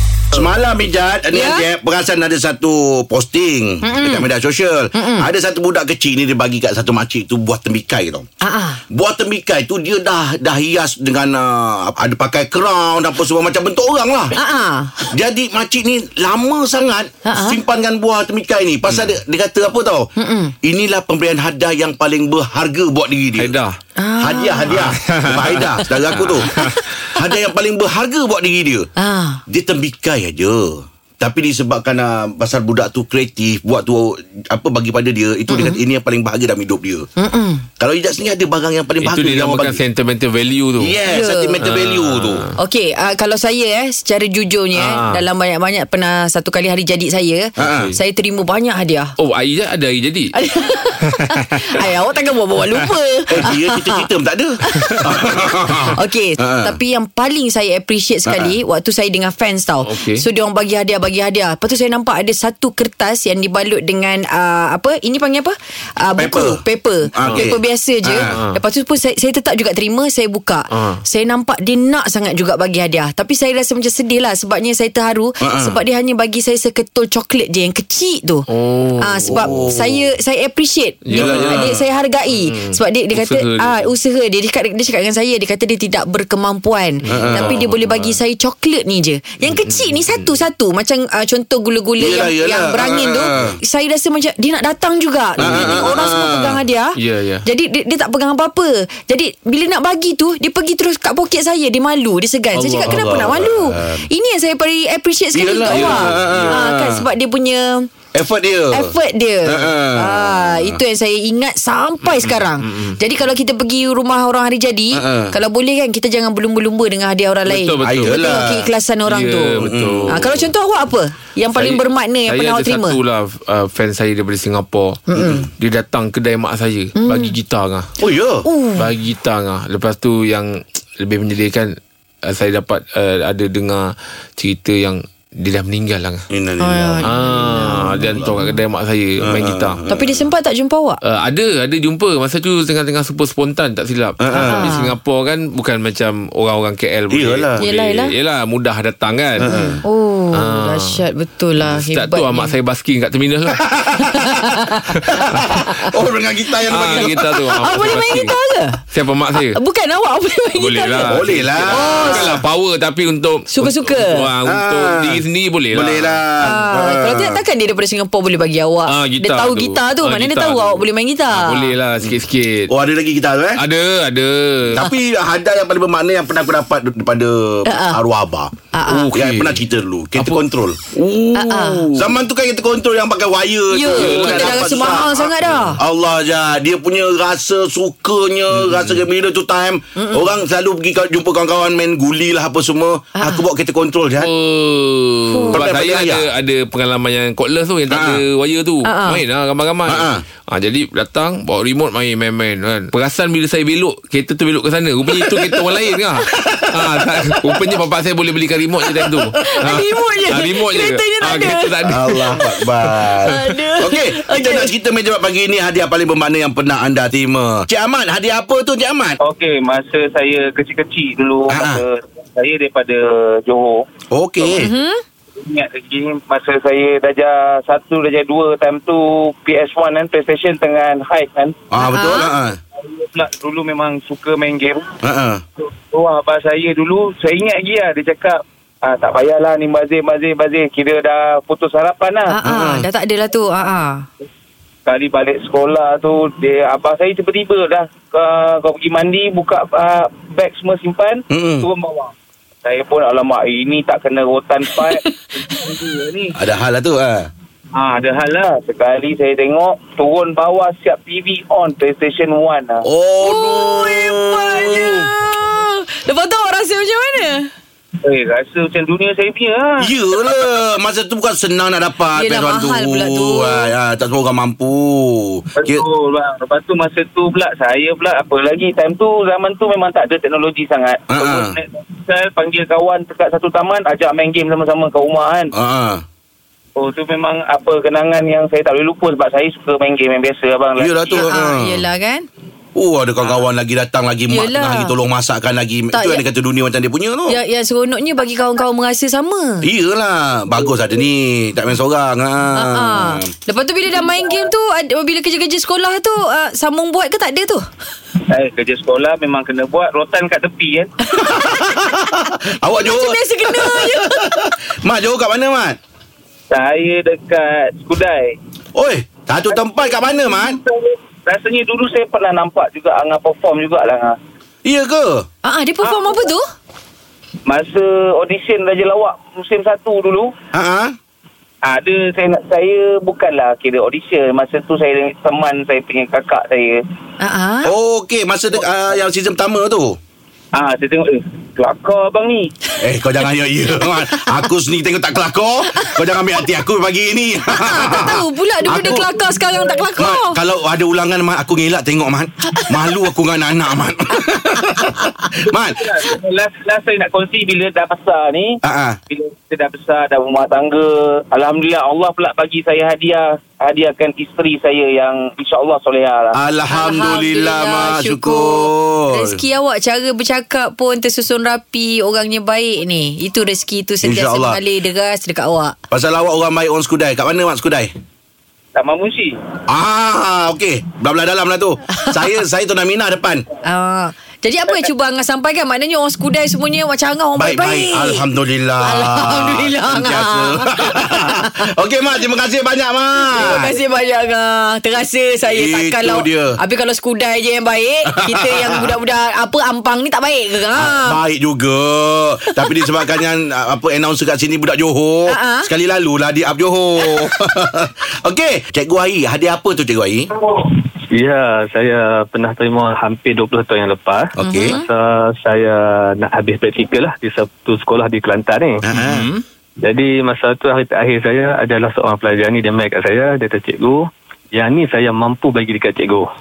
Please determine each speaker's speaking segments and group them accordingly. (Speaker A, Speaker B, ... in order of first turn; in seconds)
Speaker A: 0.3-8.3, 8.9-14.4, 15.1-20.1, 20.6-23.6, 24.2-28.9, 29.5-37.1, 37.8-39.8, 40.8-42.5, 47.6-47.9, 53.3-56.8, 58.3-58.5, 66.2-68.4, 75.4-75.8, 79.3-80.0, 81.1-81.8, 87.1-87.6, 92.0-93.6, 95.4-96.6, 102.7-104.1, 105.3-107.0, 108.1-108.9, 109.5-110.8, 114.9-115.3, 117.8-118.7, 119.6-120.3, 125.2-125.5, 128.0-128.5, 136.3-137.1, 139.2-140.2, 144.2-144.7, 147.1-147.6, 149.4-149.8, 153.7-154.6, 155.2-157.9, 161.1-162.4, 164.4-167.4, 172.7-173.6, 174.7-178.5, 179.1-194.3, 195.5-196.3, 197.9-198.2, 199.9-200.2, 206.3-207.4, 211.8-219.2, 221.5-221.8, 224.1-224.7, 231.7-232.6, 235.0-235.4, 242.4-242.9, 251.3-251.7, 256.4-257.3, 262.8-265.1, 269.8-275.9, 281.1-281.6, 285.5-286.0, 290.8-291.8, 292.8-297.4, 299.6-303.3, 311.2-315.8, 318.8-320.6, 324.6-325.3, 330.5-330.9, 337.6-340.0, 342.8-349.1, 350.0-355.8, 358.6-359.0, 366.3-369.4, 374.0-374.6, 375.9-377.9, 379.7-383.4, 387.4-393.7, 395.5-396.6, 398.1-398.9, 400.8-410.3, 414.4-414.8, 418.8-419.3
Speaker B: 1.3-1.7, 3.8-4.3, 4.9-5.3, 8.4-8.8, 14.3-15.1, 17.2-17.6, 20.2-20.5, 24.0-24.8, 29.0-29.4, 35.5-35.8, 37.2-37.7, 41.1-41.6, 42.6-49.1, 50.3-54.0, 54.6-55.0, 55.9-78.5, 79.0-107.9, 108.7-123.0, 125.1-125.4, 127.0-127.3, 128.4-128.9, 136.6-138.5, 139.9-141.0, 144.3-144.9, 147.6-148.1, 149.5-152.5, 154.1-155.9, 156.8-158.8, 159.5-161.2, 161.7-162.4, 163.5-164.3, 166.4-171.7, 177.7-178.0, 178.7-179.1, 181.3-181.9, 183.7-185.8, 190.0-190.3, 193.2-193.4, 195.3-195.6, 198.8-199.2, 209.4-212.2, 213.2-214.7, 224.5-225.0, 231.8-232.3, 242.3-244.1, 263.2-267.5, 272.1-273.7, 291.1-292.3, 294.3-294.9, 295.9-296.2, 297.3-299.7, 302.6-307.7, 311.1-311.6, 312.7-314.4, 325.4-326.4, 337.2-337.7, 347.5-350.4, 366.7-375.8, 383.7-388.2, 388.8-391.7, 393.2-401.2, 405.3-405.7, 414.4-414.9
Speaker C: 23.4-23.8, 24.7-26.8, 39.0-41.0, 41.6-42.5, 44.8-45.2, 47.6-48.0, 49.2-50.3, 59.8-60.2, 68.3-68.6, 70.7-71.0, 78.5-79.5, 81.0-81.7, 82.3-83.9, 87.0-88.2, 89.6-90.3, 95.4-95.9, 97.0-97.5, 102.6-103.1, 105.7-106.5, 112.1-113.0, 117.5-118.2, 119.1-120.4, 121.5-125.0, 125.6-127.9, 128.8-136.2, 137.0-139.8, 141.0-149.5, 150.3-151.0, 151.6-153.7, 155.0-155.5, 156.7-158.3, 158.9-159.6, 160.6-166.2, 168.9-172.7, 173.6-174.8, 178.9-179.6, 183.9-185.7, 188.6-189.0, 194.2-212.4, 418.9-419.4
Speaker D: 219.2-223.9, 225.4-231.6, 232.8-235.0, 235.6-242.3, 244.9-252.1, 252.6-256.4, 257.8-262.8, 268.0-269.9, 275.6-285.5, 286.8-291.3, 308.3-310.9, 316.5-318.4, 320.4-324.2, 325.8-326.2, 327.5-330.3, 331.6-336.8, 340.5-342.5, 348.8-349.8, 355.4-358.6, 359.1-366.4, 378.8-379.4
Speaker E: 411.1-418.8, 419.8-426.3